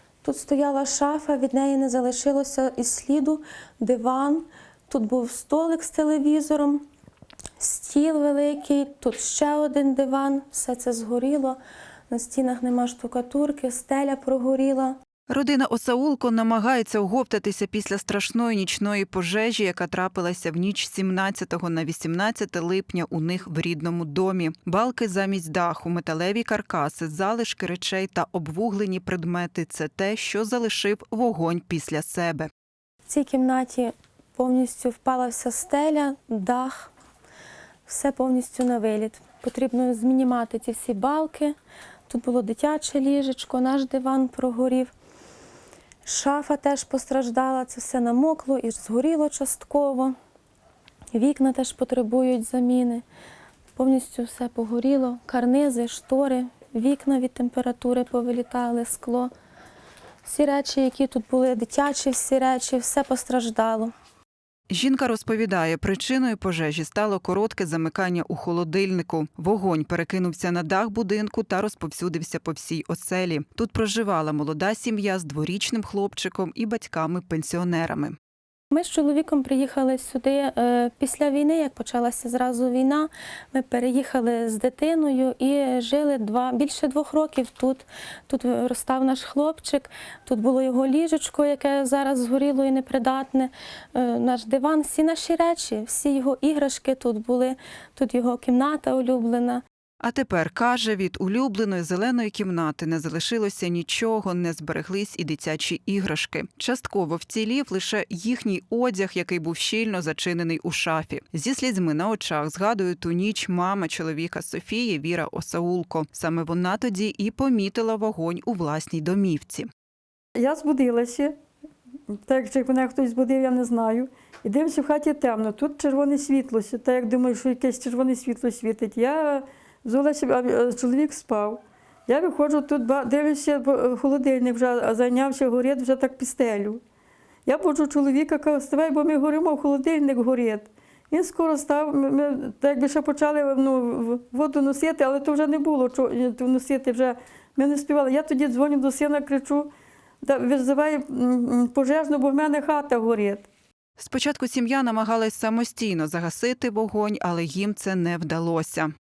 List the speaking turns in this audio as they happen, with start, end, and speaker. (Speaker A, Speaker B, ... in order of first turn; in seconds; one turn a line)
Speaker A: 0.2-6.8
Speaker A: 7.6-11.6
Speaker A: 12.1-15.0
Speaker B: 15.3-32.5
Speaker A: 33.1-36.9
Speaker A: 37.9-41.5
Speaker A: 42.1-44.9
Speaker A: 46.0-50.1
Speaker A: 51.1-53.0
Speaker A: 53.8-59.3
Speaker A: 60.2-63.9
Speaker B: 64.7-78.1
Speaker A: 78.7-99.6
Speaker B: 100.0-119.7
Speaker C: 120.4-121.3
Speaker C: 122.1-136.8
Speaker C: 137.4-149.7
Speaker C: 150.2-153.5
Speaker B: 154.0-158.9